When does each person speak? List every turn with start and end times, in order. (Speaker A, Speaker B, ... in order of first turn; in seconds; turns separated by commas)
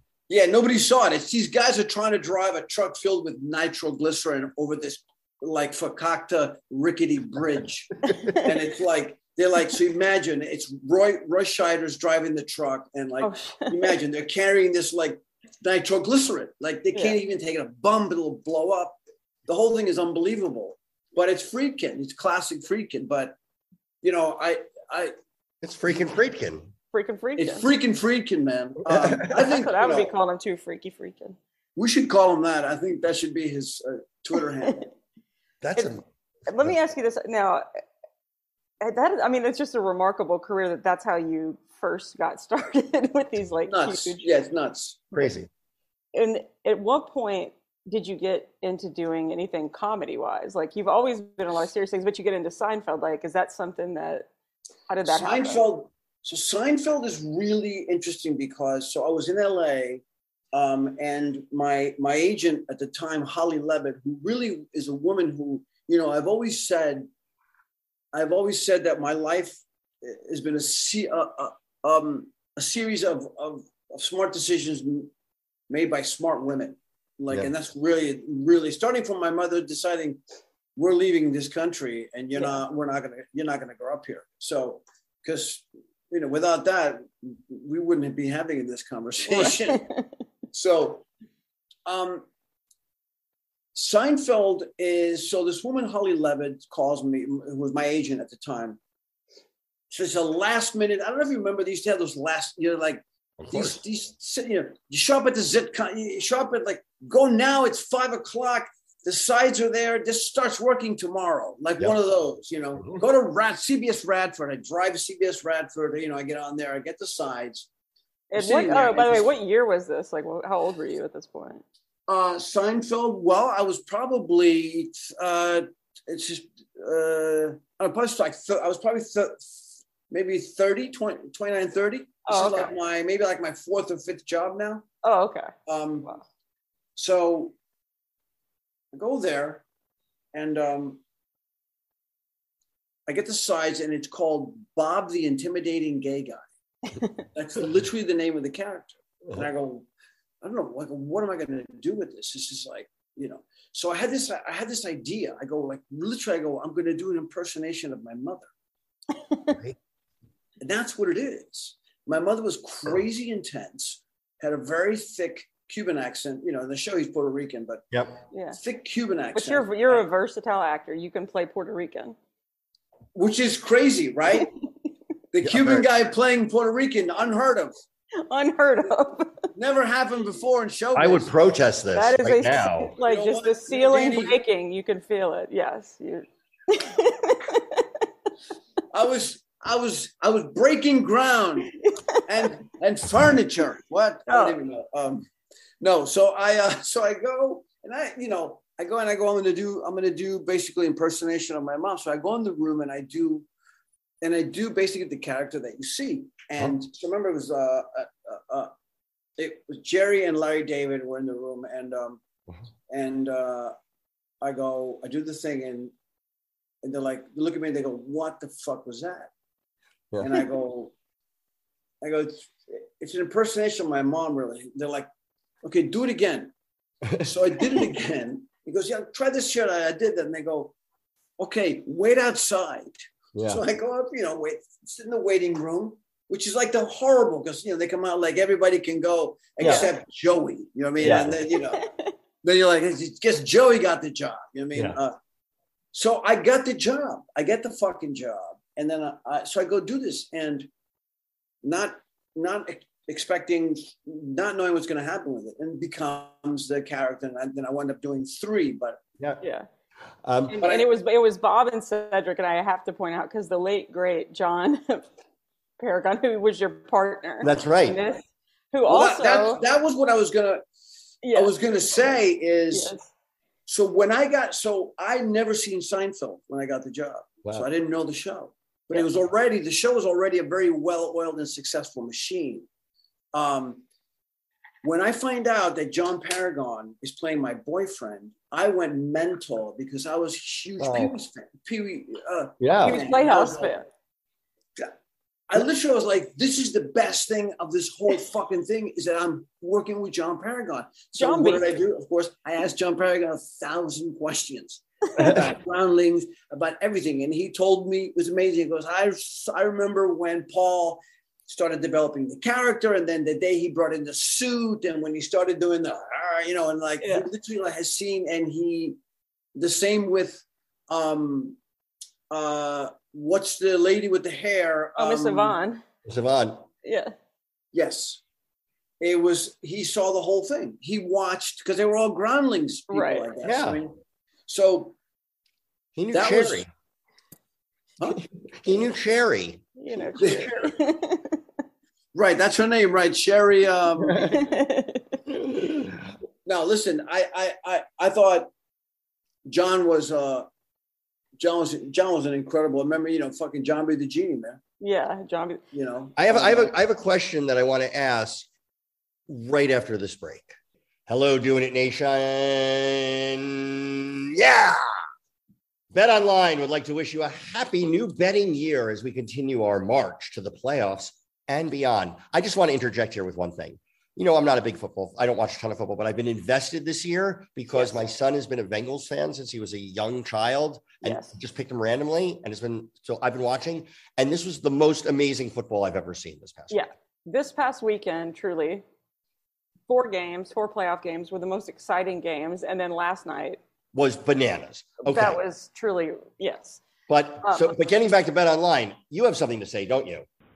Speaker A: 0.3-23.4, Speaker B: 13.2-14.0, Speaker A: 24.0-25.1, Speaker C: 25.6-26.7, Speaker B: 26.9-27.7, Speaker A: 27.4-30.1, Speaker C: 28.9-29.4, Speaker B: 29.3-31.4, Speaker A: 31.8-34.9, Speaker C: 35.6-36.0, Speaker B: 36.5-37.7, Speaker B: 38.8-44.3, Speaker A: 43.7-45.2, Speaker C: 45.1-45.5, Speaker B: 46.1-54.3, Speaker B: 54.9-55.6, Speaker A: 55.1-67.1, Speaker A: 68.1-75.1, Speaker A: 75.7-80.2, Speaker A: 80.8-89.9, Speaker B: 82.4-82.6, Speaker B: 89.3-90.1, Speaker A: 90.5-91.1, Speaker A: 91.9-92.3, Speaker A: 93.8-98.8, Speaker A: 99.9-117.7, Speaker C: 103.4-103.8, Speaker B: 118.3-121.6, Speaker A: 118.4-119.3, Speaker A: 122.1-134.9, Speaker B: 132.3-132.7, Speaker B: 135.0-135.5, Speaker A: 135.7-136.1, Speaker A: 137.0-137.6, Speaker A: 138.9-139.6, Speaker A: 140.3-141.0, Speaker A: 143.1-146.5, Speaker A: 147.3-149.9, Speaker A: 150.4-158.5, Speaker C: 159.5-159.8, Speaker A: 160.6-167.8, Speaker A: 168.6-170.0, Speaker B: 169.3-172.2, Speaker A: 173.2-174.5, Speaker A: 175.3-177.8, Speaker C: 175.4-175.9, Speaker B: 178.3-179.4, Speaker A: 179.6-181.3, Speaker C: 180.9-182.9, Speaker B: 181.9-187.9, Speaker A: 183.0-184.4, Speaker A: 188.9-195.3, Speaker B: 191.8-192.2, Speaker B: 194.3-194.6, Speaker A: 195.8-203.5, Speaker A: 204.2-208.7, Speaker A: 209.4-212.2, Speaker A: 212.9-213.7, Speaker A: 214.4-215.9, Speaker A: 216.8-219.3, Speaker C: 220.1-220.4, Speaker A: 220.2-220.9, Speaker A: 222.0-225.1, Speaker A: 225.6-226.5, Speaker A: 227.2-230.7, Speaker A: 231.4-241.9, Speaker C: 233.3-233.6, Speaker C: 239.6-239.9, Speaker B: 239.6-239.9, Speaker C: 241.0-241.4, Speaker B: 241.7-242.1, Speaker A: 242.4-245.1, Speaker A: 245.9-250.7, Speaker A: 251.6-259.0, Speaker B: 259.4-259.7, Speaker C: 260.2-260.6, Speaker B: 260.5-265.1, Speaker A: 260.6-260.9, Speaker B: 265.8-269.6, Speaker C: 267.4-268.0, Speaker A: 268.9-270.6, Speaker B: 271.2-271.5, Speaker A: 271.3-272.9, Speaker B: 272.7-273.1, Speaker A: 273.7-282.7, Speaker A: 283.3-283.8, Speaker A: 284.8-293.7, Speaker C: 290.8-291.1, Speaker C: 292.6-293.0, Speaker B: 292.8-293.9, Speaker A: 295.5-319.0, Speaker B: 301.2-301.7, Speaker B: 317.0-317.3, Speaker A: 319.6-321.6, Speaker A: 322.3-325.6, Speaker B: 325.0-325.8, Speaker C: 326.1-326.7, Speaker B: 326.8-327.1, Speaker A: 327.7-328.2, Speaker A: 329.0-335.0, Speaker B: 332.9-333.3, Speaker C: 333.4-333.8, Speaker C: 336.0-336.7, Speaker A: 336.1-336.6, Speaker A: 338.0-338.9, Speaker C: 338.2-340.8, Speaker B: 339.8-341.4, Speaker A: 340.2-340.6, Speaker A: 342.1-344.3, Speaker C: 344.0-344.5, Speaker B: 344.3-345.1, Speaker C: 345.3-346.1, Speaker A: 346.5-348.5, Speaker A: 349.5-350.5, Speaker A: 351.4-354.6, Speaker B: 354.8-355.6, Speaker A: 355.7-356.7, Speaker C: 356.2-358.5, Speaker C: 359.3-360.6, Speaker C: 361.1-364.8, Speaker C: 365.9-386.8, Speaker B: 381.0-381.4, Speaker B: 386.7-388.8, Speaker B: 389.9-393.6, Speaker C: 393.9-395.4, Speaker B: 395.0-396.8, Speaker C: 397.1-400.3